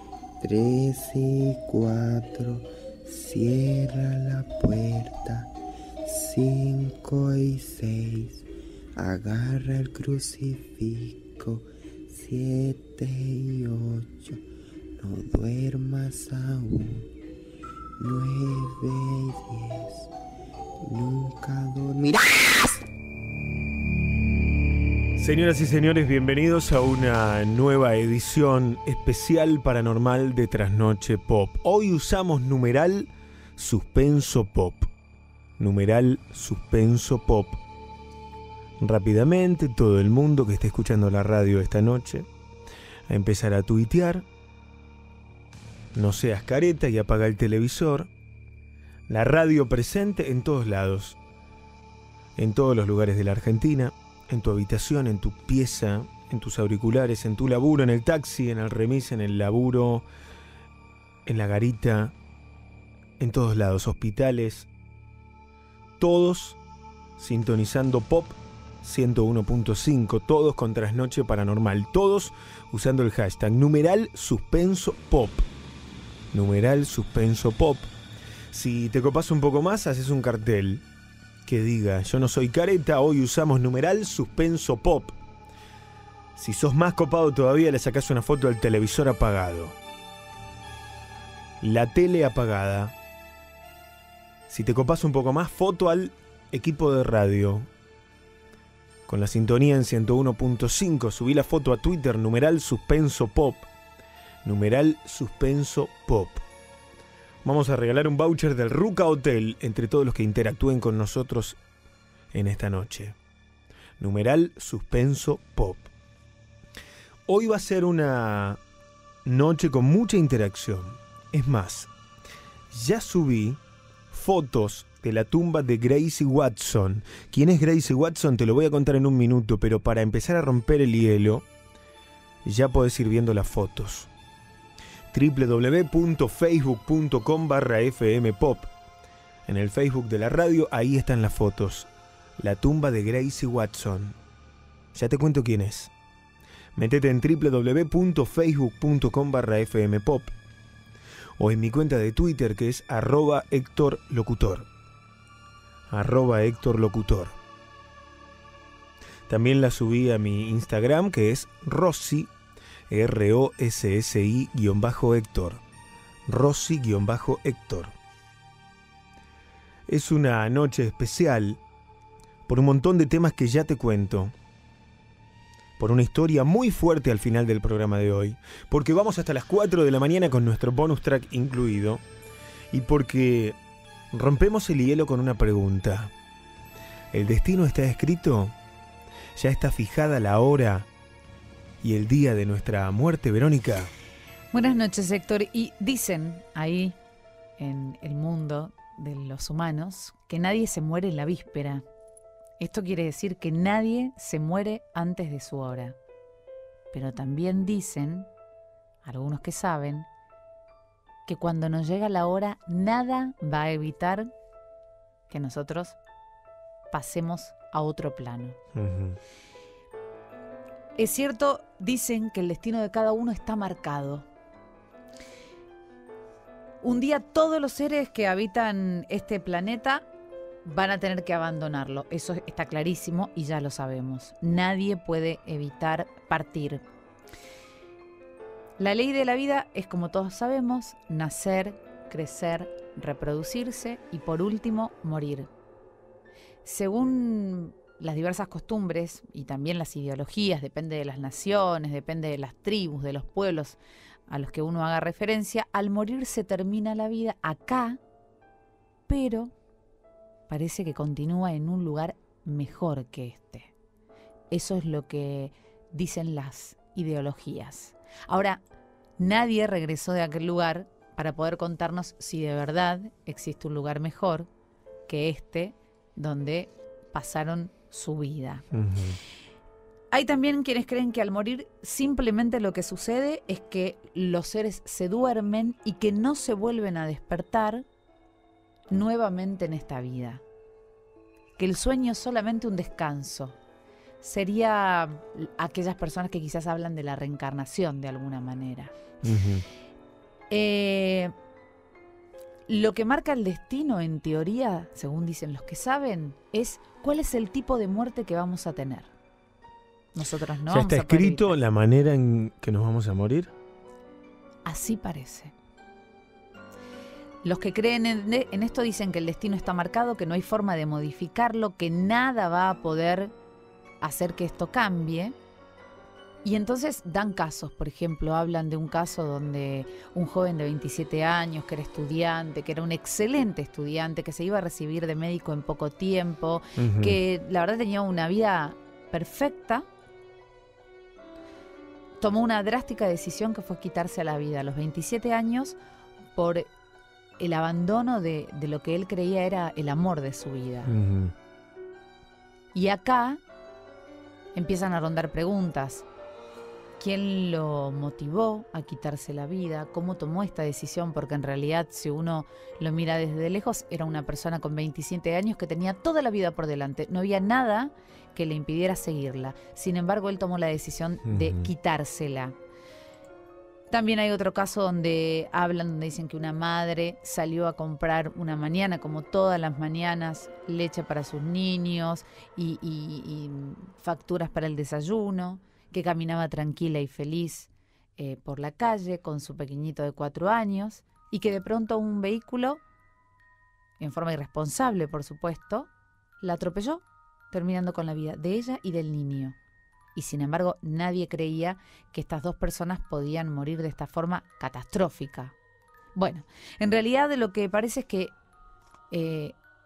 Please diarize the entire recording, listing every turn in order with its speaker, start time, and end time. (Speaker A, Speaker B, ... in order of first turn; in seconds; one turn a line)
Speaker A: 0.4-5.5
Speaker A: 6.0-8.4
Speaker A: 9.0-14.4
Speaker A: 15.0-17.1
Speaker A: 18.0-20.1
Speaker A: 20.8-22.4
Speaker B: 25.2-34.9
Speaker B: 35.6-37.6
Speaker B: 38.8-42.3
Speaker B: 43.1-44.2
Speaker B: 45.9-48.1
Speaker B: 49.1-51.2
Speaker B: 52.4-60.0
Speaker B: 61.2-62.1
Speaker B: 63.2-64.7
Speaker B: 66.0-66.6
Speaker B: 67.2-75.5
Speaker B: 76.3-77.9
Speaker B: 78.5-80.8
Speaker B: 81.5-85.2
Speaker B: 86.3-89.8
Speaker B: 91.6-92.9
Speaker B: 94.5-97.7
Speaker B: 99.1-103.7
Speaker B: 104.4-106.4
Speaker B: 107.4-111.6
Speaker B: 112.3-113.2
Speaker B: 114.0-115.9
Speaker B: 117.3-118.6
Speaker B: 119.2-121.9
Speaker B: 122.7-123.6
Speaker B: 124.1-131.5
Speaker B: 132.4-134.1
Speaker B: 135.1-138.7
Speaker B: 139.4-144.2
Speaker B: 144.9-145.9
Speaker B: 146.8-150.3
Speaker B: 151.4-154.7
Speaker B: 155.9-157.4
Speaker B: 159.3-162.3
Speaker B: 162.9-165.6
Speaker B: 166.3-167.9
Speaker B: 169.9-171.6
Speaker B: 172.5-174.3
Speaker B: 175.8-182.0
Speaker B: 182.7-183.6
Speaker B: 184.1-186.1
Speaker B: 187.1-188.5
Speaker B: 189.3-190.9
Speaker B: 191.8-193.9
Speaker C: 194.5-197.0
Speaker C: 197.6-201.8
Speaker C: 202.6-206.0
Speaker C: 206.9-208.3
Speaker C: 209.0-210.1
Speaker C: 211.3-214.3
Speaker C: 215.3-216.0
Speaker C: 216.9-218.6
Speaker B: 218.7-219.2
Speaker C: 221.0-224.3
Speaker C: 226.8-230.0
Speaker C: 230.6-236.8
Speaker C: 238.8-245.5
Speaker C: 246.6-258.0
Speaker C: 259.1-259.5
Speaker C: 260.5-263.7
Speaker C: 264.5-268.6
Speaker C: 269.2-274.5
Speaker C: 275.1-278.6
Speaker B: 278.7-279.2
Speaker C: 280.1-287.8
Speaker C: 288.9-290.4
Speaker C: 291.6-293.6
Speaker C: 294.2-298.9
Speaker B: 299.2-299.6
Speaker C: 300.5-301.3
Speaker C: 302.7-309.1
Speaker C: 310.1-311.6
Speaker B: 310.7-313.5
Speaker C: 314.6-315.5
Speaker C: 317.4-323.3
Speaker C: 324.0-325.4
Speaker C: 326.4-339.9
Speaker B: 336.8-337.2
Speaker C: 342.2-345.8
Speaker C: 346.3-346.7
Speaker C: 347.4-350.9
Speaker B: 350.9-351.3
Speaker C: 352.7-353.4
Speaker C: 354.5-356.1
Speaker C: 357.0-372.6
Speaker B: 371.2-371.7
Speaker C: 373.9-392.8
Speaker C: 394.0-395.9
Speaker C: 396.4-399.6
Speaker C: 400.1-405.5
Speaker C: 406.1-408.3
Speaker C: 409.1-409.6